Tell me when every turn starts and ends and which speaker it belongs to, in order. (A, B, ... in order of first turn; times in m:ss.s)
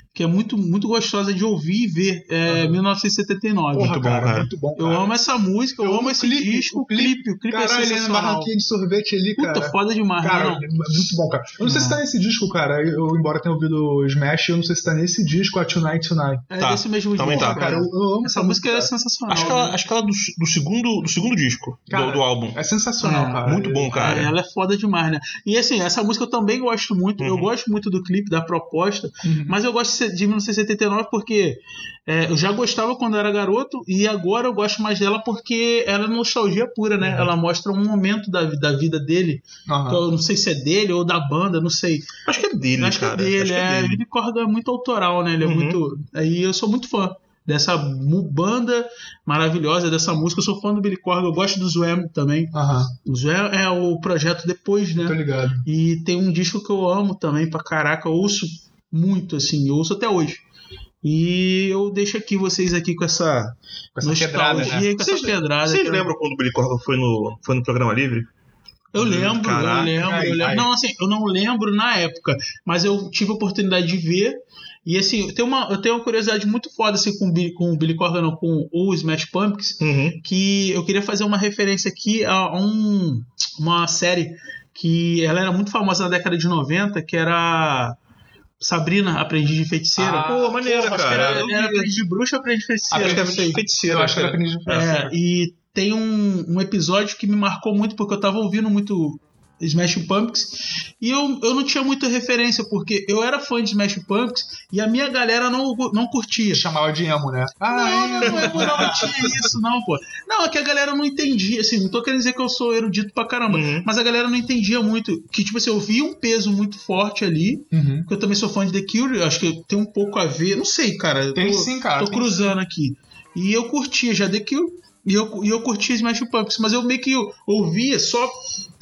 0:00.1-0:04.0 A
0:02.5-0:02.8 B
0:03.7-0:05.1 B
0:03.8-0:04.5 C
0:04.8-0:08.5 A
0:05.8-0:16.5 B
0:09.4-0:10.6 A
0:11.6-0:12.0 A
0:16.5-0:19.8 A
0:16.6-0:17.9 C
0:17.2-0:18.9 B
0:19.3-0:22.6 C
0:21.9-0:24.1 B
0:23.0-0:42.1 A
0:23.4-0:24.3 C
0:27.2-0:27.5 C
0:29.2-0:29.6 B
0:39.7-0:40.0 B
0:42.2-0:44.0 C
0:42.8-1:00.4 A
0:45.4-0:45.8 C
0:52.5-0:52.9 B
0:55.0-0:55.6 B
1:01.0-1:06.1 A
1:04.0-1:04.8 B
1:04.5-1:08.3 C
1:08.9-1:28.0 A
1:08.9-1:10.6 C
1:10.0-1:10.7 B
1:19.8-1:20.2 C
1:28.6-1:33.6 A
1:30.0-1:30.4 B
1:30.2-1:31.9 C
1:32.9-1:34.8 B
1:32.9-1:35.1 C
1:34.6-1:46.6 A
1:46.5-1:49.4 B
1:47.7-2:08.3 A
1:48.2-1:49.2 C
1:53.5-1:53.9 C
1:57.7-1:58.1 B
2:01.3-2:02.5 B